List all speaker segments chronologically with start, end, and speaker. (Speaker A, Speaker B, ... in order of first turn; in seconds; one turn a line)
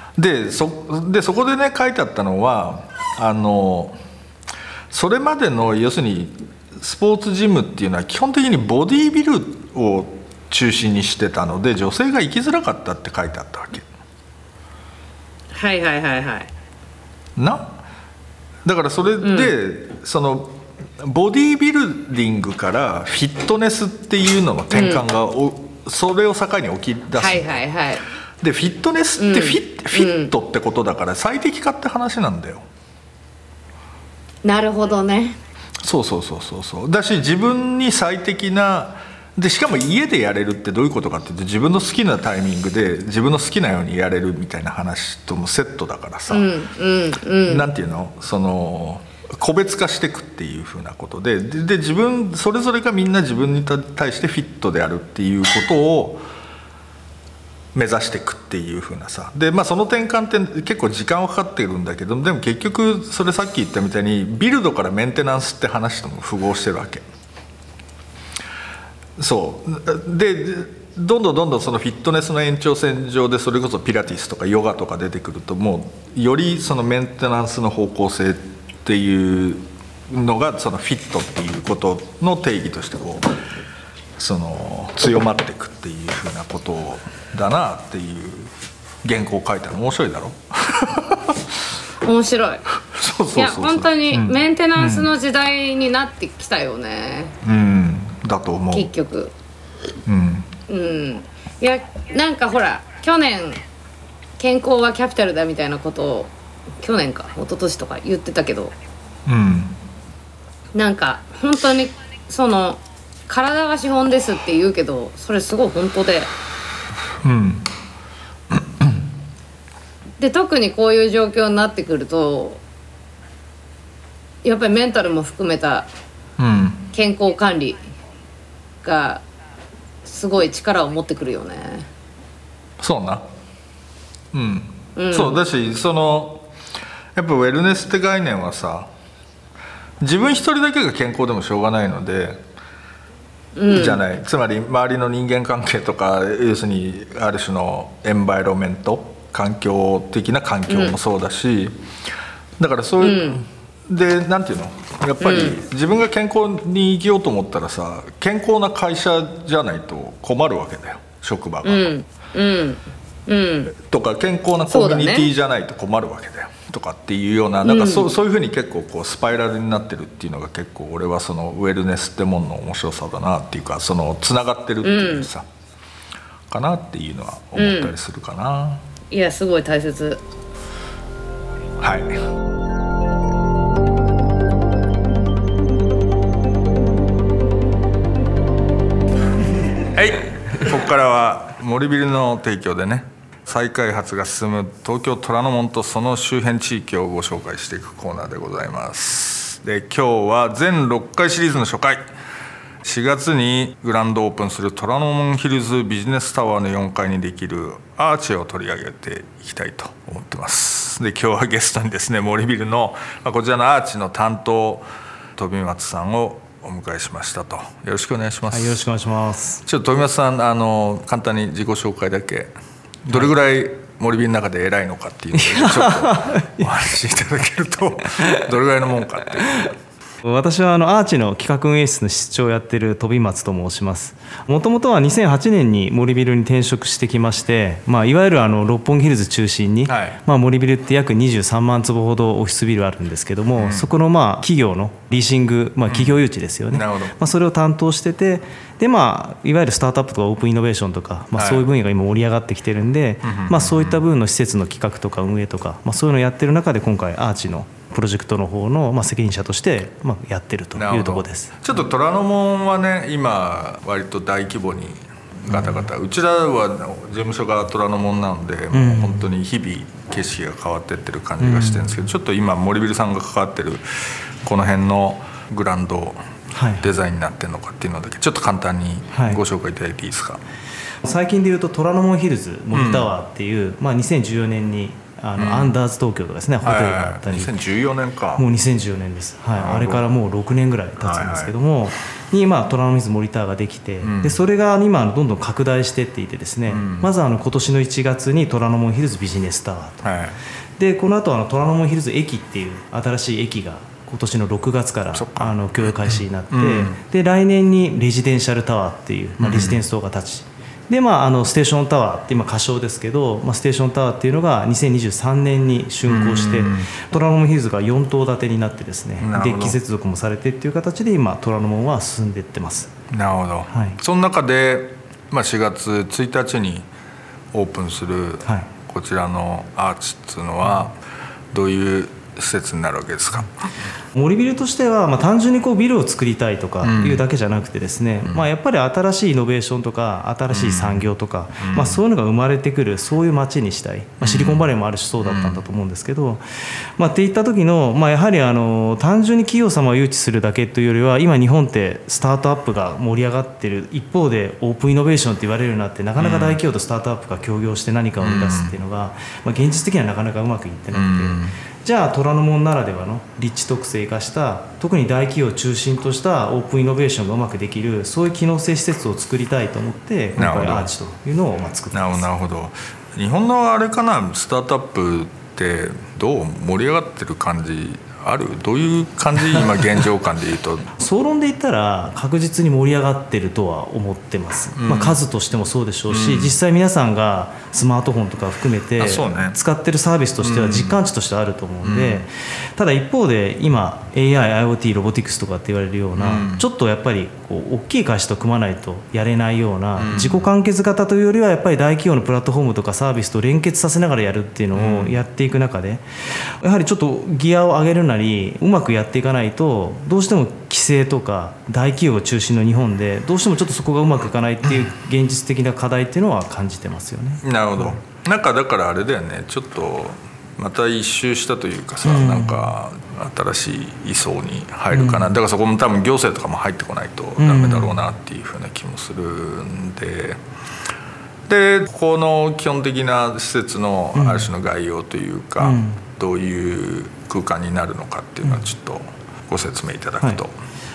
Speaker A: 0.2-4.0
Speaker A: 4.9-13.9
Speaker B: 15.5-16.5
Speaker A: 17.4-17.8
Speaker A: 18.6-27.6
Speaker B: 19.2-19.5
Speaker B: 24.7-25.0
Speaker B: 27.2-28.0
Speaker A: 28.4-32.6
Speaker B: 29.2-30.3
Speaker B: 34.4-35.4
Speaker A: 35.8-46.5
Speaker B: 46.3-47.7
Speaker A: 47.5-56.2
Speaker A: 57.7-67.0
Speaker A: 69.2-83.3
Speaker A: 84.2-88.5
Speaker A: 89.0-91.6
Speaker B: 92.0-92.7
Speaker A: 92.9-95.1
Speaker B: 93.3-97.4
Speaker A: 97.4-98.9
Speaker B: 98.7-99.3
Speaker A: 100.1-100.5
Speaker B: 100.7-103.6
Speaker B: 104.4-108.7
Speaker A: 109.3-109.8
Speaker B: 110.8-116.3
Speaker A: 117.2-117.7
Speaker A: 118.5-119.0
Speaker B: 120.2-122.6
Speaker B: 124.4-125.9
Speaker A: 126.4-126.8
Speaker B: 126.9-127.8
Speaker B: 128.8-129.2
Speaker B: 130.1-131.9
Speaker A: 132.8-133.2
Speaker A: 134.3-136.5
Speaker B: 135.0-135.4
Speaker A: 137.2-138.9
Speaker A: 140.0-142.4
Speaker B: 143.6-144.0
Speaker A: 143.7-151.9
Speaker B: 150.7-151.0
Speaker A: 152.6-161.9
Speaker B: 153.0-153.4
Speaker B: 155.2-155.6
Speaker B: 161.6-163.8
Speaker A: 163.8-175.5
Speaker B: 164.7-165.3
Speaker B: 167.6-168.1
Speaker B: 174.8-175.3
Speaker A: 176.5-178.8
Speaker B: 177.6-177.9
Speaker B: 179.1-180.2
Speaker A: 181.8-182.2
Speaker A: 189.8-202.1
Speaker A: 202.8-218.8
Speaker C: 218.5-219.6
Speaker A: 219.7-222.5
Speaker A: 223.0-229.7
Speaker C: 225.3-226.8
Speaker C: 230.2-261.6
Speaker A: 239.9-240.2
Speaker A: 243.6-243.9
Speaker A: 245.9-246.2
Speaker A: 246.7-247.2
Speaker A: 251.4-251.7
Speaker A: 253.2-254.0
Speaker A: 260.8-276.2
Speaker C: 265.5-265.8
Speaker C: 268.7-269.3
Speaker C: 271.4-272.1
Speaker C: 276.5-276.9
Speaker A: 276.8-280.4
Speaker C: 279.1-279.4
Speaker C: 281.0-287.6
Speaker A: 282.7-283.1
Speaker A: 285.4-285.8
Speaker A: 286.6-288.4
Speaker C: 288.4-300.1
Speaker A: 289.6-290.1
Speaker A: 291.0-291.5
Speaker A: 294.0-294.4
Speaker A: 296.7-297.1
Speaker A: 300.0-300.4
Speaker C: 300.8-322.9
Speaker A: 305.1-307.0
Speaker A: 309.4-309.8
Speaker A: 316.1-316.9
Speaker A: 319.2-319.8
Speaker A: 323.1-326.9
Speaker C: 323.7-324.0
Speaker A: 327.5-331.0
Speaker A: 331.5-333.5
Speaker C: 334.1-346.4
Speaker A: 336.8-337.2
Speaker A: 340.5-341.1
Speaker A: 341.6-342.0
Speaker A: 344.2-345.6
Speaker C: 347.0-372.3
Speaker A: 356.2-356.6
Speaker A: 358.2-358.7
Speaker A: 360.9-361.6
Speaker A: 370.4-370.9
Speaker A: 371.9-380.9
Speaker C: 381.0-406.0
Speaker A: 384.8-385.2
Speaker A: 386.1-386.6
Speaker A: 389.0-389.6
Speaker A: 390.4-391.0
Speaker A: 391.8-392.2
Speaker A: 396.2-396.6
Speaker A: 400.0-400.5
Speaker A: 404.7-405.2
Speaker C: 406.6-418.0
Speaker A: 417.4-430.4
Speaker C: 422.1-422.7
Speaker C: 424.9-425.3
Speaker C: 427.4-428.0
Speaker A: 431.5-440.5
Speaker C: 434.2-434.5
Speaker C: 435.6-436.0